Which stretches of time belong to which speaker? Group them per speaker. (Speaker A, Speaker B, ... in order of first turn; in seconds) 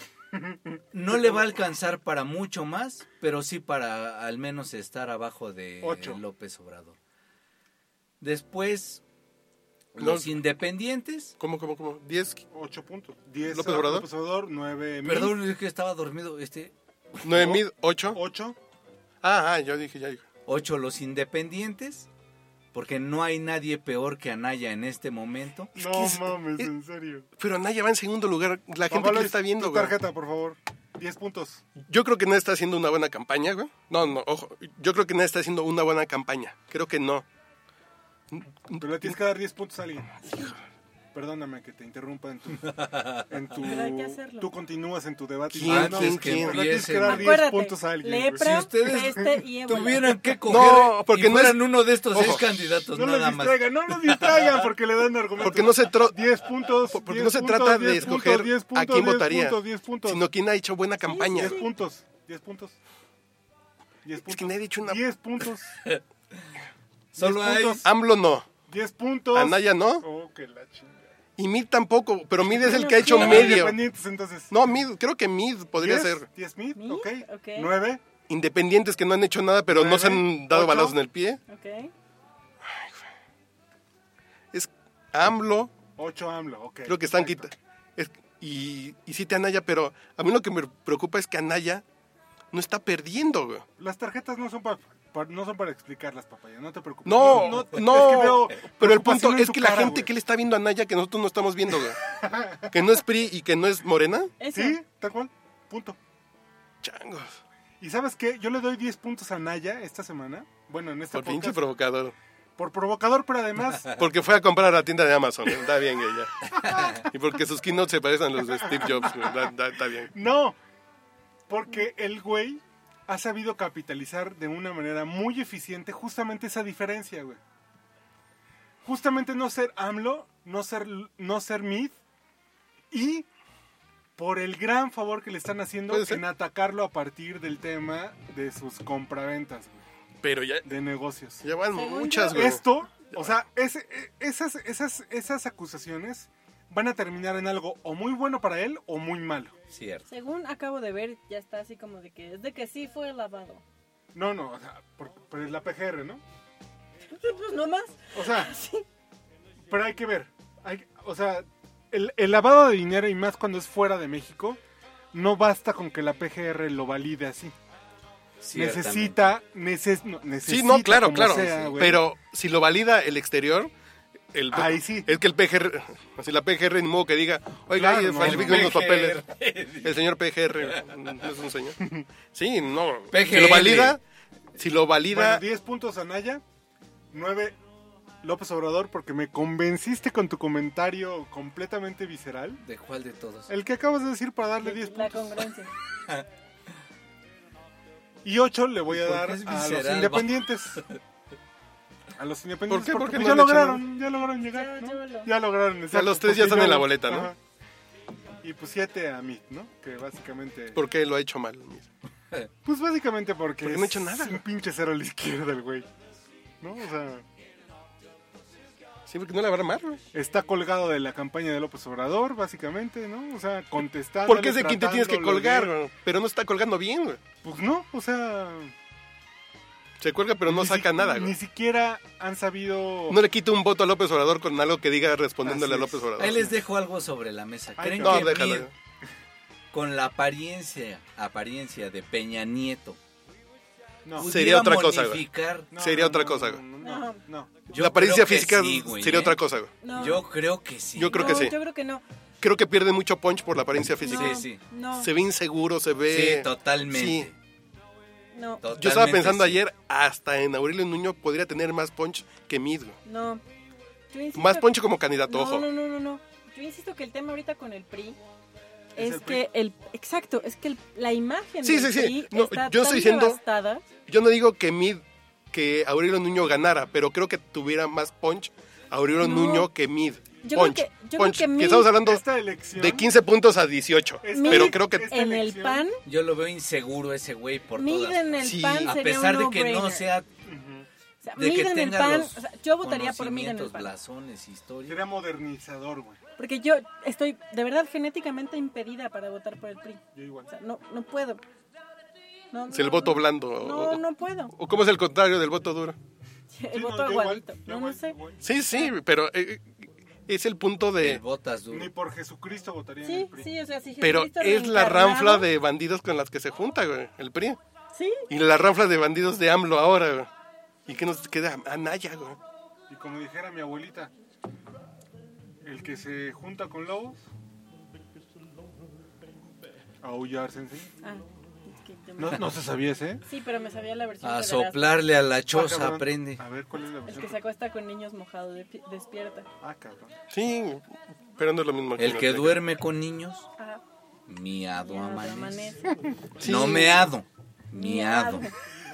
Speaker A: 0.9-7.0, 8.2-9.0, 9.9-11.3, 15.0-16.7, 20.4-22.1, 22.7-25.7, 42.7-43.1, 45.6-47.4, 48.4-54.6, 67.1-67.9, 116.5-117.0, 149.7-150.1, 168.4-169.3, 171.1-171.8, 178.2-180.0, 180.5-181.0, 183.1-184.0, 192.6-193.5, 198.9-200.8, 236.2-238.7, 239.7-243.0, 244.2-245.7, 247.7-251.5, 254.1-254.6, 256.1-257.4, 258.6-259.6, 286.0-290.3, 291.4-295.0, 311.0-311.9, 334.2-336.4, 342.0-343.5, 344.3-345.8, 346.4-348.5
Speaker B: 1.1-1.4, 5.8-6.2, 12.5-15.3, 17.3-18.6, 25.7-27.3, 28.9-31.6, 38.8-40.3, 41.1-49.0, 52.5-60.2, 61.3-62.8, 64.0-65.8, 67.1-67.9, 68.7-71.1, 73.0-74.5, 75.8-78.0, 79.7-81.0, 86.0-87.5, 93.8-100.1, 102.1-102.7, 104.5-106.0, 107.8-111.6, 112.6-114.0, 118.4-119.5, 120.1-120.6, 121.5-127.4, 128.8-131.9, 132.9-133.3, 134.2-139.8, 140.6-141.4, 142.3-149.5, 154.1-156.2, 158.1-158.5, 159.7-164.6, 165.1-167.5, 168.5-172.0, 174.5-175.1, 177.7-178.8, 181.8-182.1, 185.1-186.4, 187.1-187.6, 188.2-192.6, 193.5-195.4, 198.2-200.8, 202.2-207.4, 208.4-210.8, 212.6-215.9, 216.6-217.2, 220.1-225.7, 227.4-228.7, 230.4-233.2, 235.4-236.6, 237.8-238.6, 244.0-244.3, 245.7-247.5, 268.9-269.4, 282.0-283.1, 284.2-285.9, 290.4-290.9, 294.9-296.2, 300.1-300.5, 306.7-308.4, 311.7-313.5, 322.9-324.1, 325.6-327.2, 330.0-330.9, 332.2-333.2, 335.5-337.4, 339.6-340.1
Speaker C: 10.0-10.4, 11.4-12.4, 13.4-14.1, 17.2-18.2, 19.2-20.2, 25.7-26.7, 27.4-29.9, 31.8-37.2, 38.3-39.2, 40.2-40.5, 45.5-46.8, 50.5-52.5, 55.4-56.2, 56.8-61.6, 64.2-65.0, 67.8-68.5, 69.3-70.0, 71.4-73.8, 74.5-76.3, 78.3-81.4, 82.6-83.1, 84.5-85.7, 86.8-91.8, 92.5-93.6, 97.0-102.0, 102.6-104.3, 106.8-107.4, 111.1-112.1, 113.9-116.3, 117.0-120.1, 135.9-136.2, 140.2-140.7, 141.4-142.6, 170.4-173.7, 174.3-179.2, 179.8-181.8, 182.3-184.0, 184.6-185.4, 202.7-203.8, 205.9-207.3, 210.7-211.9, 213.6-214.4, 219.1-220.0, 224.3-227.2, 230.0-231.3, 233.1-236.4, 238.0-238.7, 244.2-246.6, 247.7-249.7, 250.9-251.6, 252.4-257.3, 258.7-263.0, 264.3-265.7, 271.6-273.4, 274.1-282.2, 282.7-285.1, 288.4-288.9, 302.7-306.0, 308.4-311.2, 314.0-317.6, 318.3-320.3, 320.9-322.4, 340.3-342.6, 346.4-347.1
Speaker D: 43.6-44.5, 47.0-50.3, 61.0-61.7, 72.5-73.7, 76.7-77.7, 81.5-81.9, 104.4-104.8, 141.7-142.6, 150.1-153.6, 157.1-158.8, 194.6-195.7, 204.5-205.3, 246.8-247.2, 249.8-250.2, 251.1-252.0, 254.0-255.1, 258.3-258.6, 263.0-263.4, 264.1-264.7, 265.3-268.2, 269.0-273.8, 279.2-279.7, 280.4-281.9, 284.3-286.0, 287.8-290.1, 291.2-293.9, 296.4-301.4, 302.5-304.5, 306.5-308.1, 313.0-315.5, 317.9-318.2, 331.0-332.5, 333.2-335.0, 337.1-339.5, 344.8-345.8, 347.7-348.5